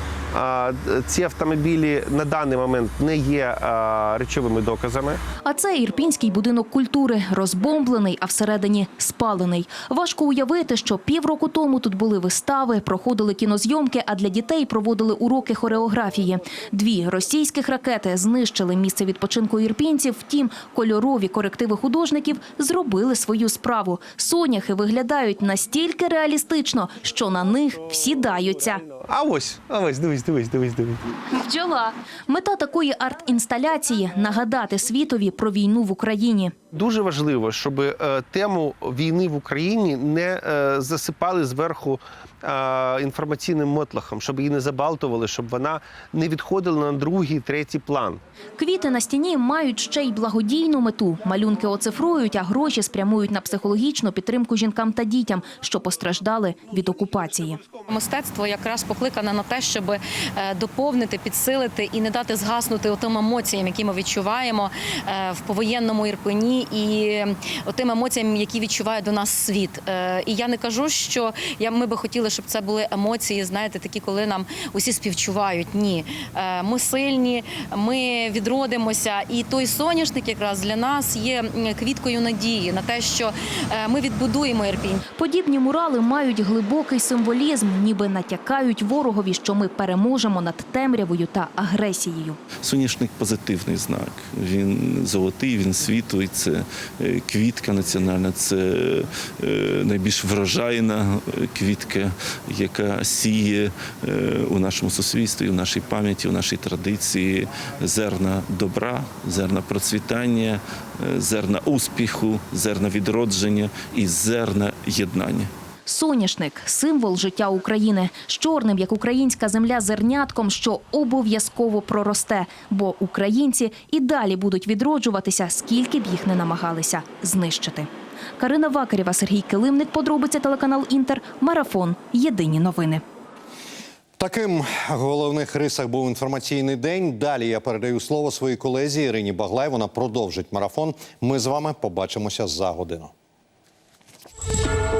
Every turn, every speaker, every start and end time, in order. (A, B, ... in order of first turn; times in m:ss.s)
0:00.3-0:05.2 A
0:05.4-0:28.8 B
0:29.0-0:31.0 A
0:31.3-0:36.5 B
0:36.7-0:48.2 A
0:48.6-0:57.6 B
0:57.9-1:25.0 C
1:25.2-1:32.4 B
1:32.6-1:55.5 D
1:55.9-2:13.0 B
2:14.2-2:23.1 E